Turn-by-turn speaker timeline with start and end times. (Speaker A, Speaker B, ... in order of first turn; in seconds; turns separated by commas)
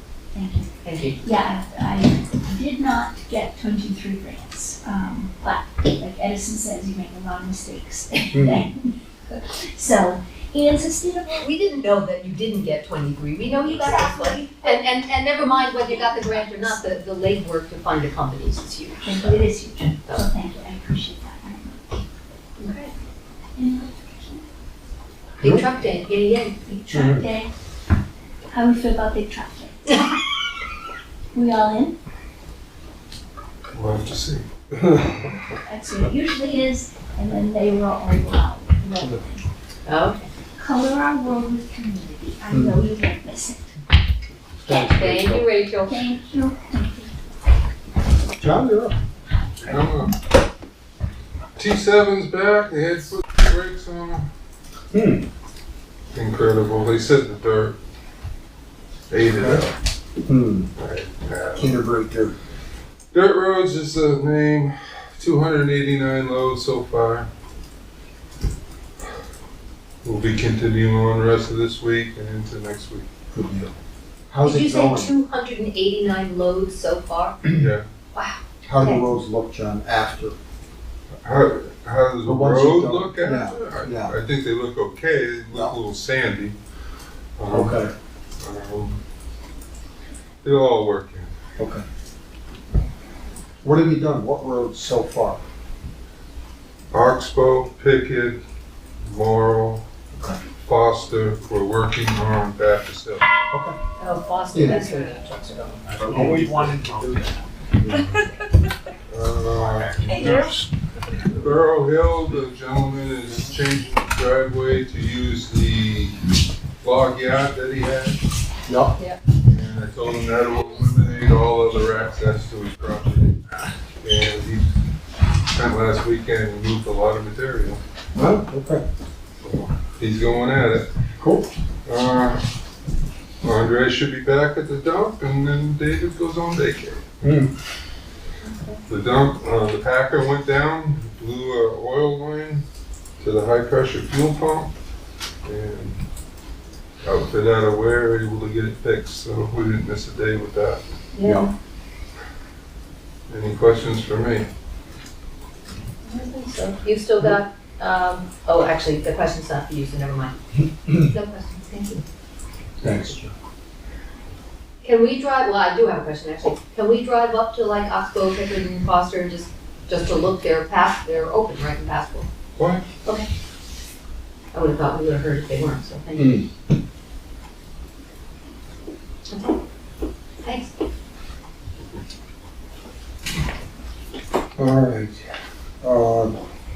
Speaker A: 0.3-11.5, Speaker B: 0.8-1.2, Speaker C: 8.3-8.7, Speaker B: 11.4-19.5, Speaker A: 13.7-17.0, Speaker A: 19.0-22.1, Speaker B: 22.6-22.9, Speaker A: 23.6-24.4, Speaker B: 25.4-26.6, Speaker A: 25.8-27.5, Speaker C: 26.9-27.3, Speaker A: 28.5-30.0, Speaker A: 31.3-32.0, Speaker D: 33.7-34.7, Speaker A: 35.6-39.5, Speaker B: 39.9-40.3, Speaker A: 40.6-43.8, Speaker C: 42.5-42.8, Speaker C: 44.6-45.5, Speaker B: 44.6-46.1, Speaker A: 45.9-47.2, Speaker C: 48.4-49.0, Speaker D: 49.6-50.1, Speaker D: 51.6-54.3, Speaker C: 54.9-55.3, Speaker D: 56.1-57.8, Speaker D: 59.1-59.8, Speaker C: 60.3-60.7, Speaker D: 60.8-61.8, Speaker C: 61.6-62.3, Speaker D: 63.1-67.3, Speaker D: 70.0-73.1, Speaker C: 73.3-73.7, Speaker C: 74.3-75.1, Speaker B: 74.4-77.4, Speaker D: 77.5-77.9, Speaker B: 78.1-79.1, Speaker C: 78.7-80.4, Speaker D: 81.2-86.6, Speaker C: 82.2-84.1, Speaker D: 87.4-87.8, Speaker C: 87.5-87.9, Speaker D: 88.4-89.0, Speaker D: 90.4-91.3, Speaker C: 91.6-91.8, Speaker C: 93.6-95.4, Speaker D: 96.9-98.4, Speaker D: 99.0-99.9, Speaker C: 100.2-100.4, Speaker D: 100.6-103.3, Speaker C: 103.5-103.8, Speaker B: 104.0-105.8, Speaker C: 104.5-104.9, Speaker E: 105.9-108.0, Speaker C: 106.1-107.2, Speaker D: 109.1-110.6, Speaker E: 109.4-110.5, Speaker B: 110.1-110.4, Speaker D: 111.3-116.2, Speaker D: 116.8-118.2, Speaker C: 118.7-118.9, Speaker D: 119.4-123.4, Speaker D: 124.0-124.7, Speaker D: 125.5-127.8, Speaker C: 128.2-128.8, Speaker D: 129.4-130.9, Speaker C: 131.2-131.5, Speaker D: 131.8-132.4, Speaker D: 133.4-137.1, Speaker C: 137.2-137.5, Speaker B: 138.4-138.8, Speaker D: 138.9-142.6, Speaker D: 143.2-144.7, Speaker D: 145.4-146.0, Speaker D: 147.0-150.8, Speaker B: 151.1-151.5, Speaker C: 151.2-151.5, Speaker D: 153.3-154.5, Speaker B: 156.0-160.3, Speaker B: 160.9-162.0, Speaker C: 162.8-163.3, Speaker B: 164.8-172.3, Speaker D: 172.6-172.8, Speaker B: 174.5-176.5, Speaker C: 176.2-176.5, Speaker B: 179.3-179.6, Speaker B: 180.4-180.7, Speaker C: 184.6-185.2, Speaker C: 185.8-186.3